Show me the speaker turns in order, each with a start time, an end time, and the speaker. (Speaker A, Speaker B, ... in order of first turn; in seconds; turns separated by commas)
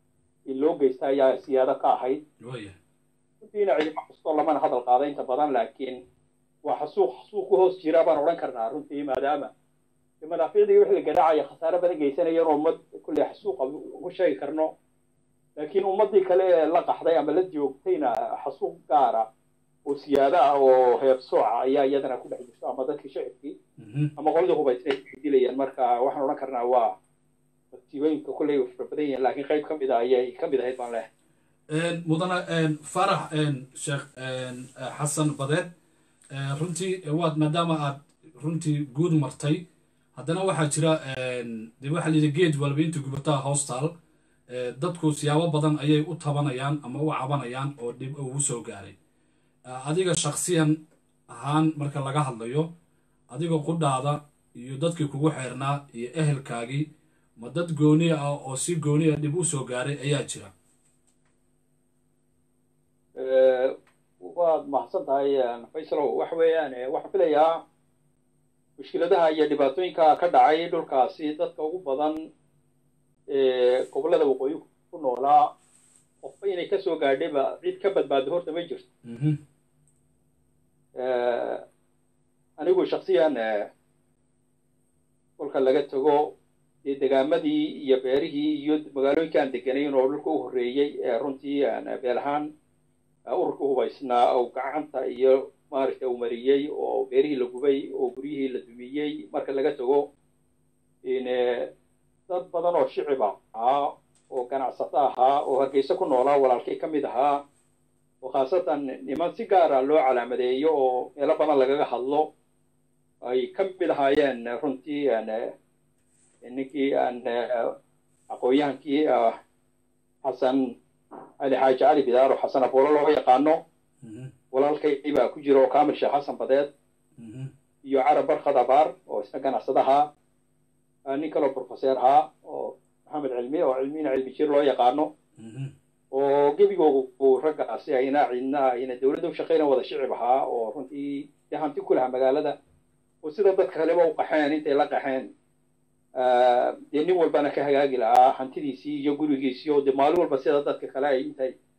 Speaker A: 0.5-2.2, Speaker B: 2.4-2.7, Speaker A: 3.4-6.0, Speaker A: 6.6-9.5, Speaker A: 10.2-14.7, Speaker A: 15.6-19.2, Speaker A: 19.9-23.6, Speaker B: 23.8-24.1, Speaker A: 24.2-26.9, Speaker A: 27.7-31.1, Speaker B: 31.7-35.7, Speaker B: 36.3-39.6, Speaker B: 40.1-43.9, Speaker B: 44.5-49.0, Speaker B: 49.7-50.8, Speaker B: 51.3-52.7, Speaker B: 53.3-56.9, Speaker B: 57.4-60.5, Speaker A: 63.1-67.6, Speaker A: 68.8-72.3, Speaker A: 73.3-75.5, Speaker A: 76.2-78.8, Speaker B: 79.0-79.4, Speaker A: 81.0-81.6, Speaker A: 82.6-83.7, Speaker A: 85.4-86.3, Speaker A: 86.8-92.5, Speaker A: 93.3-100.1, Speaker A: 101.0-101.7, Speaker A: 102.3-107.4, Speaker A: 108.2-112.3, Speaker A: 113.2-115.5, Speaker A: 116.4-117.7, Speaker A: 118.3-119.4, Speaker A: 120.2-120.8, Speaker A: 121.4-123.6, Speaker B: 124.0-124.3, Speaker A: 124.5-126.7, Speaker B: 127.2-127.5, Speaker A: 127.8-130.1, Speaker A: 131.1-135.1, Speaker B: 135.4-135.7, Speaker A: 136.1-142.6, Speaker A: 143.2-145.3, Speaker A: 146.2-151.5